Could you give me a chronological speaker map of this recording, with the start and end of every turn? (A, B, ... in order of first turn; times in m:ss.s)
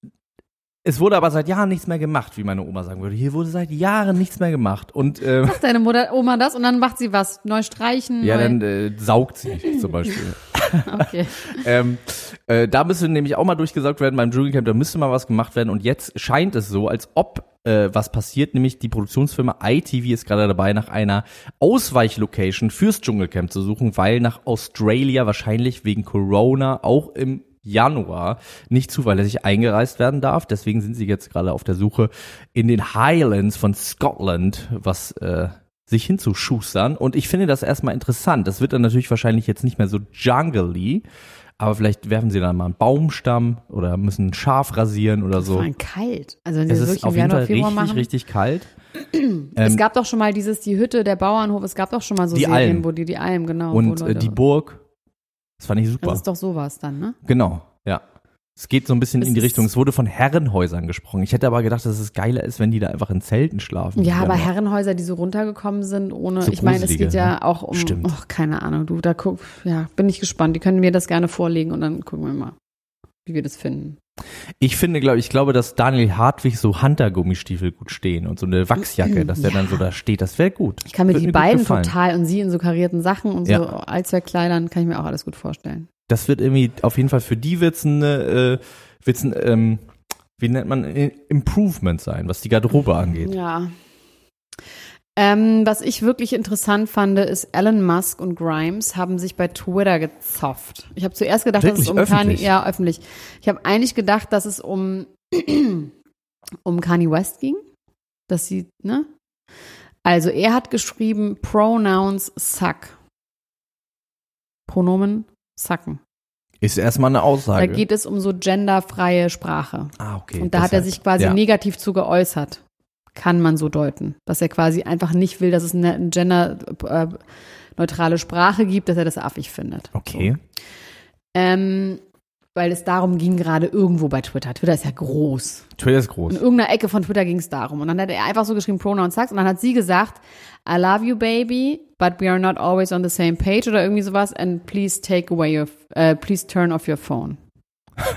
0:00.8-0:05.6 A
0:05.4-0:08.6 B
0:08.2-0:41.0 A
0:10.8-0:11.6 B
0:41.6-0:45.7 A
0:45.4-0:48.1 B
0:46.7-0:48.7 A
0:49.1-0:54.4 B
0:49.6-0:49.8 A
0:52.3-0:52.9 A
0:53.7-0:54.8 A
0:55.6-0:56.2 A
0:56.0-0:57.2 B
0:57.2-0:58.0 A
0:58.6-1:04.5 A
0:59.2-0:59.7 B
1:04.0-1:12.6 B
1:06.4-1:08.1 A
1:13.2-1:14.0 B
1:14.6-1:21.9 A
1:19.3-1:19.6 B
1:20.9-1:25.9 B
1:26.1-1:29.9 A
1:30.4-1:33.3 A
1:33.2-1:33.8 B
1:35.2-1:45.9 B
1:41.6-1:42.5 A
1:46.6-1:47.6 B
1:48.3-1:49.1 B
1:50.0-1:53.0 B
1:54.7-1:56.0 B
1:56.6-1:57.8 A
1:57.6-2:02.6 B
2:00.0-2:01.4 A
2:03.2-2:07.2 B
2:07.8-2:10.3 B
2:10.0-2:10.4 A
2:11.3-2:12.0 B
2:12.6-2:15.7 B
2:15.8-2:16.4 A
2:16.3-2:27.4 B